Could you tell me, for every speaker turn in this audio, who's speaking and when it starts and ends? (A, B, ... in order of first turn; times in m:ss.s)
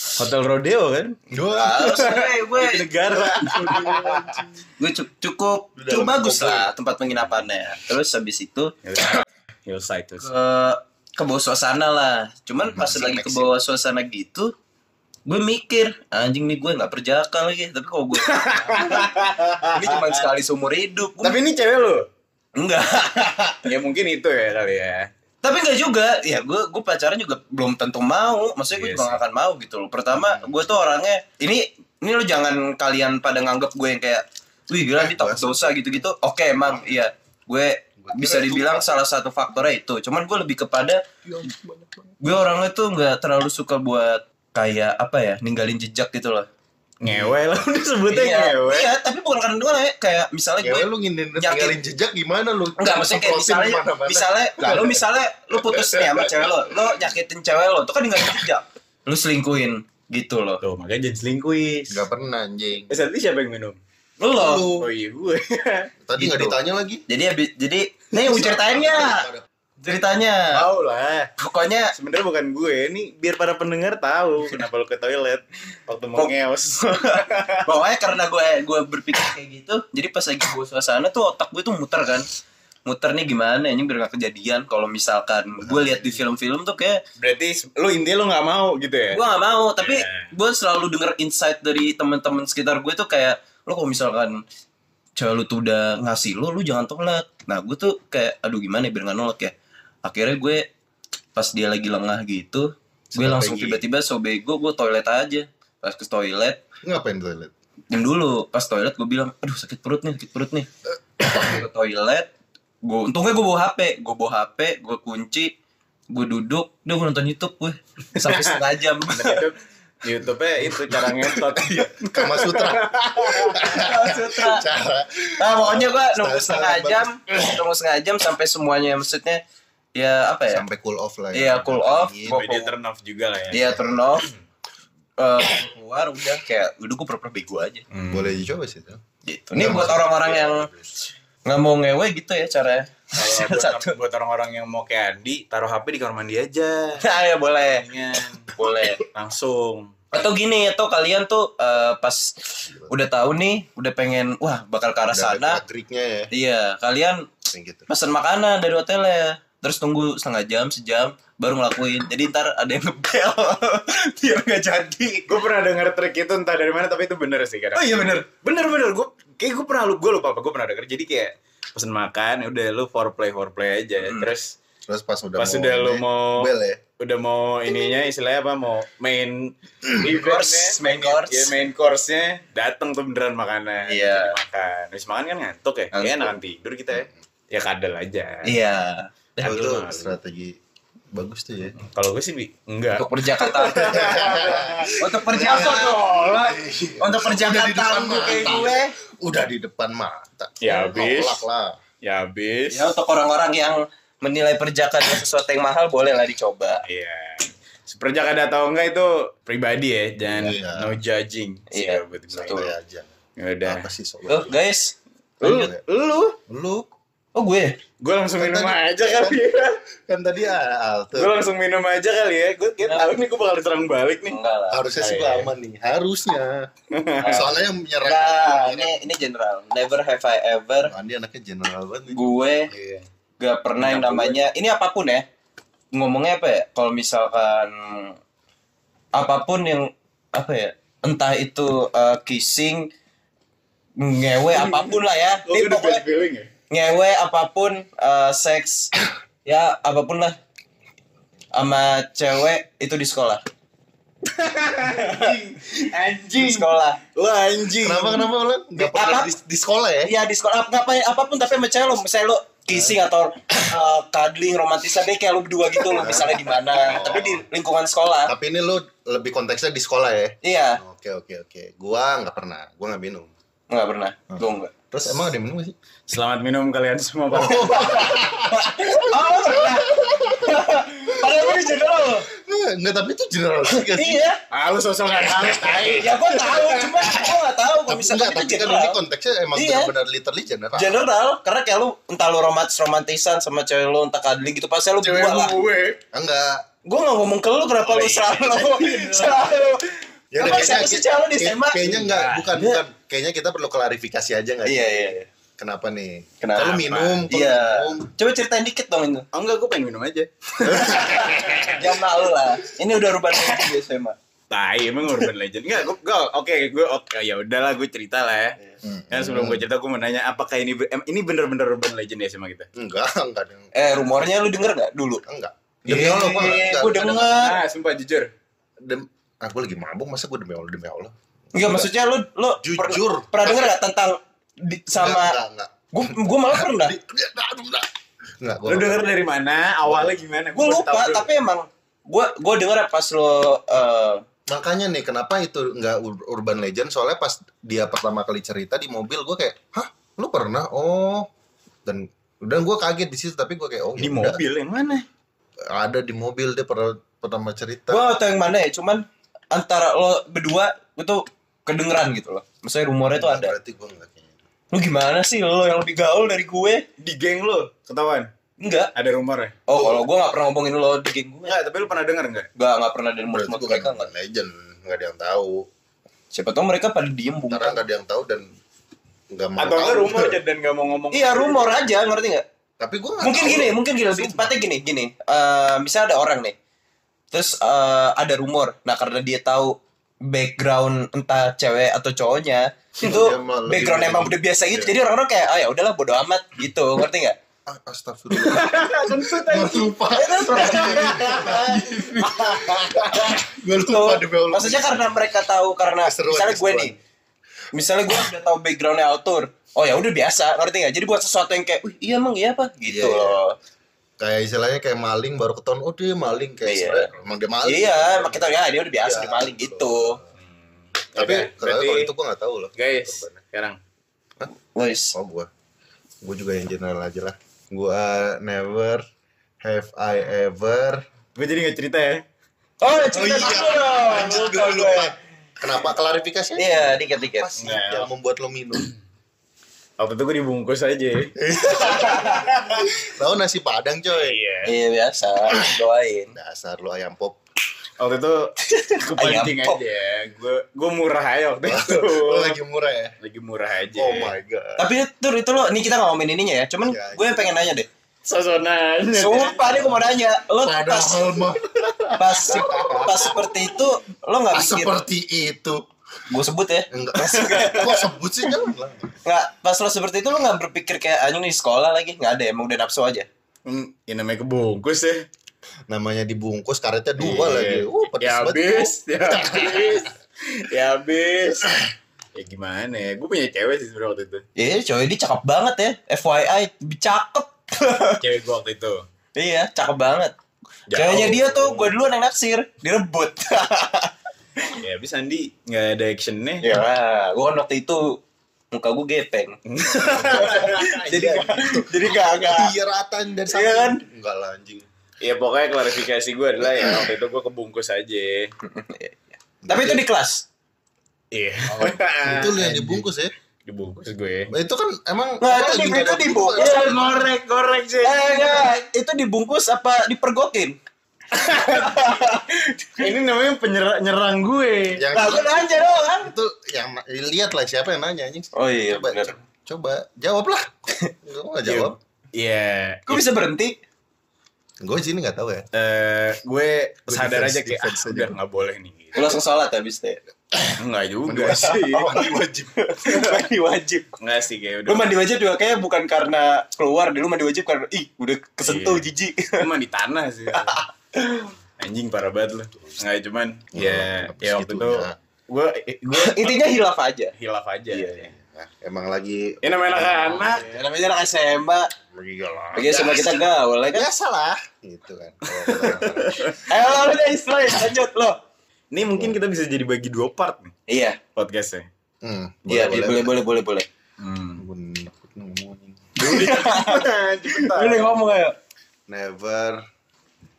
0:00.2-0:04.4 A
0:01.3-0:02.0 B
0:01.5-0:02.8 C
0:03.4-0:04.4 B
0:04.8-0:08.7 C
0:05.8-0:06.7 B
0:07.1-0:07.4 A
0:08.8-0:10.3 A
0:10.2-0:14.5 C
0:12.6-0:13.6 B
0:15.2-0:19.0 C
0:18.2-0:20.3 A
0:19.7-0:21.4 C
0:21.2-0:22.1 A
0:22.6-0:23.6 C
0:23.6-0:25.1 A
0:25.4-0:41.0 C
0:28.7-0:29.2 A
0:30.1-0:30.6 B
0:34.9-0:36.0 B
0:38.0-0:38.9 B
0:41.2-0:42.1 B
0:42.2-0:46.5 C
0:47.0-0:48.9 A
0:47.0-0:47.3 B
0:48.1-0:51.8 C
0:50.6-0:54.9 B
0:52.8-1:00.6 C
0:54.6-0:54.9 A
0:55.5-0:56.5 B
1:00.6-1:02.0 A
1:01.9-1:03.0 B
1:02.9-1:03.8 A
1:04.2-1:04.7 C
1:04.3-1:04.9 B
1:04.8-1:05.9 A
1:06.0-1:07.0 B
1:06.2-1:06.6 C
1:07.1-1:09.2 C
1:08.1-1:09.4 B
1:09.8-1:10.6 C
1:10.5-1:11.3 A
1:11.4-1:11.9 C
1:11.9-1:17.7 A
1:16.2-1:22.3 C
1:22.8-1:27.0 C
1:25.6-1:26.2 B
1:27.2-1:29.2 A
1:29.1-1:34.4 C
1:29.8-1:30.3 A
1:35.2-1:40.7 C
1:41.3-1:46.6 C
1:43.1-1:43.8 B
1:46.8-1:47.5 B
1:47.9-1:50.7 C
1:51.2-1:52.3 C
1:51.2-1:51.5 B
1:52.8-1:55.5 C
1:56.1-1:59.4 C
1:58.2-2:03.7 A
2:00.7-2:07.6 B
2:03.6-2:04.6 C
2:05.4-2:09.4 C
2:09.9-2:10.6 C
2:10.5-2:12.4 B
2:11.3-2:12.7 C
2:12.2-2:14.4 A
2:13.5-2:14.3 C
2:13.5-2:14.2 B
2:15.2-2:17.8 C
2:17.9-2:18.4 A
2:18.1-2:19.0 B
2:19.2-2:20.7 C
2:19.5-2:20.9 B
2:21.4-2:23.9 C
2:23.2-2:30.0 A
2:27.0-2:27.8 C
2:28.5-2:29.0 C
2:30.1-2:35.6 C
2:35.1-2:36.3 B
2:36.3-2:45.3 C
2:37.5-2:37.9 B
2:45.3-2:54.6 A
2:47.8-2:48.2 C
2:54.0-2:54.3 C
2:54.9-2:56.8 B
2:55.4-3:08.6 A
2:59.9-3:01.5 C
3:03.8-3:04.4 C
3:05.9-3:06.3 C
3:08.4-3:09.5 C
3:09.4-3:10.6 B
3:09.4-3:10.2 A
3:11.1-3:11.8 B
3:11.8-3:16.6 A
3:12.9-3:14.3 C
3:13.9-3:21.8 B
3:15.0-3:16.4 C
3:17.0-3:18.9 C
3:20.6-3:21.4 A
3:22.0-3:22.9 A
3:22.7-3:26.8 C
3:26.8-3:32.6 A
3:30.2-3:31.0 B
3:31.7-3:32.7 C
3:32.3-3:33.1 B
3:33.4-3:33.9 A
3:33.6-3:34.6 B
3:34.3-3:34.9 C
3:35.4-3:36.4 A
3:35.4-3:35.8 B
3:36.5-3:36.9 B
3:37.3-3:37.8 C
3:38.0-3:39.8 A
3:38.4-3:39.4 B
3:40.1-3:41.4 B
3:41.1-3:44.4 A
3:44.3-3:44.8 C
3:44.7-3:46.7 B
3:45.0-3:45.5 A
3:46.9-3:47.5 A
3:47.2-3:47.5 C
3:47.2-3:49.1 B
3:48.0-3:50.9 C
3:50.8-3:52.2 B
3:52.1-3:52.7 C
3:52.7-3:53.0 A
3:53.4-3:55.2 C
3:53.8-3:54.4 A
3:55.9-3:58.2 C
3:59.1-4:02.9 C
4:04.0-4:06.0 C
4:04.5-4:06.5 A
4:06.7-4:08.9 C
4:09.4-4:10.4 C
4:11.6-4:13.4 C
4:14.2-4:18.3 A
4:15.0-4:15.3 C
4:16.4-4:17.0 C
4:17.8-4:20.1 B
4:18.8-4:19.3 C
4:20.0-4:28.3 C
4:26.0-4:26.4 B
4:26.0-4:27.4 A
4:26.9-4:27.2 B
4:28.3-4:33.3 B
4:30.4-4:30.8 C
4:33.7-4:34.7 C
4:34.3-4:35.7 B
4:36.1-4:38.3 A
4:37.3-4:44.2 B
4:37.4-4:42.3 C
4:43.9-4:44.4 C
4:44.5-4:47.4 A
4:45.1-4:46.1 B
4:45.9-4:49.0 C
4:47.9-4:51.0 B
4:49.5-4:49.9 C
4:50.8-4:55.6 C
4:55.0-4:56.0 A
4:56.1-4:56.6 B
4:56.8-5:02.8 C
4:57.8-4:59.5 A
5:00.3-5:08.1 B
5:02.0-5:02.5 A
5:04.6-5:05.3 C
5:06.4-5:09.3 C
5:06.8-5:07.2 A
5:09.3-5:11.8 A
5:10.6-5:14.2 C
5:14.5-5:18.6 A
5:18.8-5:19.6 B
5:19.1-5:22.7 A
5:22.7-5:23.7 B
5:23.7-5:25.2 C
5:25.2-5:27.4 B
5:25.8-5:27.6 C
5:27.3-5:28.3 A
5:28.8-5:31.9 B
5:31.5-5:35.4 C
5:32.6-5:33.7 B
5:34.9-5:39.0 B
5:35.9-5:36.9 C
5:38.6-5:41.3 A
5:39.8-5:40.2 B
5:40.6-5:44.2 C
5:44.5-5:51.3 B
5:51.8-5:54.4 B
5:54.0-5:55.0 A
5:55.7-5:58.1 B
5:57.9-6:03.5 C
6:03.1-6:04.3 B
6:04.7-6:06.8 C
6:07.0-6:08.3 A
6:08.6-6:08.9 C
6:08.9-6:09.6 A
6:09.7-6:11.6 C
6:09.8-6:10.0 B
6:11.4-6:12.5 A
6:12.6-6:14.1 C
6:13.3-6:15.7 B
6:16.3-6:17.8 C
6:17.5-6:18.5 B
6:19.3-6:20.4 B
6:19.6-6:21.9 A
6:21.1-6:22.4 C
6:22.8-6:24.6 B
6:23.2-6:26.5 C
6:27.3-6:37.4 C
6:33.0-6:34.9 B
6:37.7-6:45.4 B
6:38.3-6:43.4 A
6:40.1-6:41.6 C
6:43.7-6:46.9 C
6:46.0-6:47.0 B
6:47.7-6:53.5 C
6:52.8-6:53.4 B
6:54.2-7:00.3 B
6:56.6-6:57.1 C
6:57.6-7:00.2 C
7:01.0-7:02.1 A
7:01.2-7:03.3 B
7:02.8-7:03.8 A
7:04.7-7:05.1 C
7:05.1-7:05.5 B
7:06.2-7:09.0 B
7:09.6-7:11.0 B
7:11.4-7:12.2 A
7:12.8-7:15.1 C
7:13.1-7:18.9 B
7:16.6-7:17.5 C
7:17.6-7:18.1 A
7:20.0-7:21.3 A
7:21.4-7:24.4 B
7:21.7-7:22.5 C
7:21.9-7:22.9 A
7:24.1-7:24.7 A
7:24.6-7:26.3 C
7:26.3-7:27.4 B
7:28.0-7:32.6 A
7:28.7-7:29.8 C
7:31.6-7:33.1 B
7:33.2-7:34.4 A
7:33.9-7:34.8 B
7:34.8-7:37.9 C
7:36.8-7:37.7 B
7:38.2-7:40.0 A
7:39.1-7:41.4 C
7:40.6-7:41.7 B
7:41.7-7:43.7 A
7:42.2-7:45.0 C
7:42.2-7:43.4 B
7:44.5-7:45.8 B
7:46.3-7:48.0 C
7:46.9-7:49.1 B
7:49.2-7:53.3 C
7:53.6-7:55.2 A
7:55.9-8:00.1 B
7:57.2-8:01.7 A
8:02.3-8:04.4 A
8:04.6-8:08.2 C
8:08.2-8:09.0 A
8:09.4-8:10.3 C
8:10.9-8:12.0 A
8:10.9-8:14.1 C
8:14.7-8:16.8 A
8:16.6-8:18.2 C
8:18.7-8:19.6 C
8:19.6-8:21.6 A
8:20.0-8:24.9 B
8:20.2-8:22.7 C
8:23.5-8:24.0 C
8:25.2-8:28.5 A
8:26.6-8:27.1 B
8:28.6-8:30.4 C
8:29.6-8:30.0 B
8:31.3-8:33.0 A
8:31.7-8:33.3 B
8:33.6-8:34.5 A
8:34.5-8:37.3 B
8:35.4-8:37.1 C
8:36.6-8:38.8 A
8:38.0-8:40.8 C
8:41.3-8:42.2 A
8:41.4-8:43.1 C
8:43.0-8:45.0 A
8:44.9-8:52.0 B
8:45.1-8:46.3 C
8:48.5-8:49.4 C
8:51.6-8:53.2 A
8:53.1-8:53.7 C
8:54.8-8:55.6 B
8:55.7-8:59.3 A
8:57.1-8:58.4 B
8:59.1-9:00.2 C
9:00.5-9:02.8 B
9:00.8-9:02.2 A
9:01.6-9:04.1 C
9:03.1-9:03.4 A
9:04.2-9:05.2 A
9:04.9-9:09.7 C
9:08.6-9:10.8 A
9:10.5-9:11.5 C
9:11.8-9:16.6 A
9:13.7-9:15.1 B
9:16.1-9:17.3 C
9:17.4-9:18.3 A
9:17.9-9:20.6 B
9:19.6-9:20.8 A
9:20.3-9:21.9 C
9:22.1-9:26.5 B
9:22.7-9:24.1 C
9:25.5-9:26.7 A
9:26.7-9:28.4 C
9:28.9-9:30.7 A
9:29.1-9:29.4 B
9:30.9-9:31.2 C
9:31.3-9:31.8 A
9:32.2-9:33.4 B
9:32.7-9:33.8 C
9:34.2-9:34.6 A
9:34.6-9:36.1 B
9:36.2-9:38.6 C
9:36.2-9:38.2 A
9:39.1-9:39.8 B